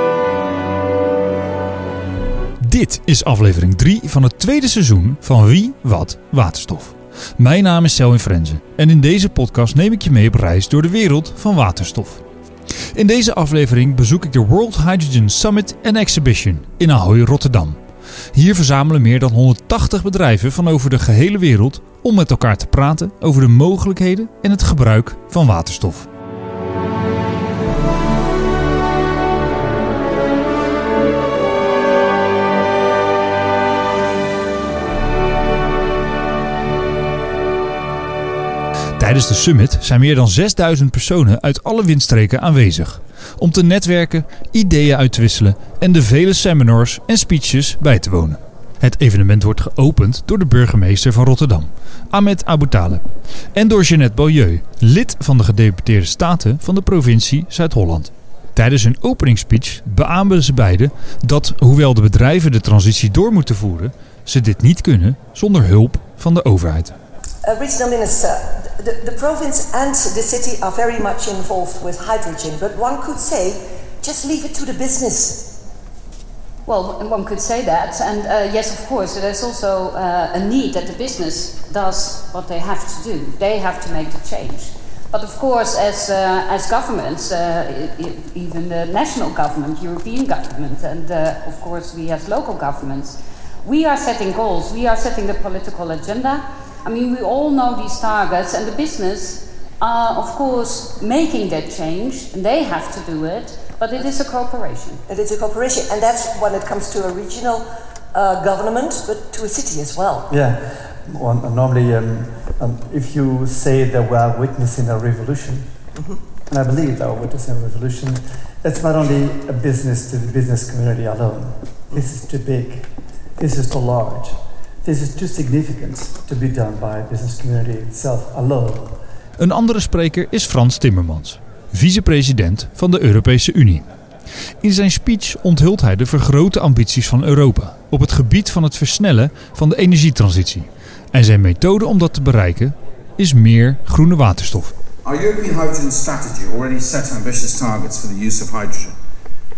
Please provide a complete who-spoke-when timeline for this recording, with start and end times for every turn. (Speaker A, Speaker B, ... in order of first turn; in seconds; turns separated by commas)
Speaker A: 2.6-17.8, Speaker A: 18.3-26.1, Speaker A: 39.0-67.0, Speaker B: 67.5-75.6, Speaker C: 76.7-105.0, Speaker B: 105.1-110.3, Speaker D: 110.3-115.7, Speaker B: 116.0-116.2, Speaker D: 116.5-129.0, Speaker A: 129.4-133.9, Speaker A: 134.6-144.7, Speaker E: 145.0-148.9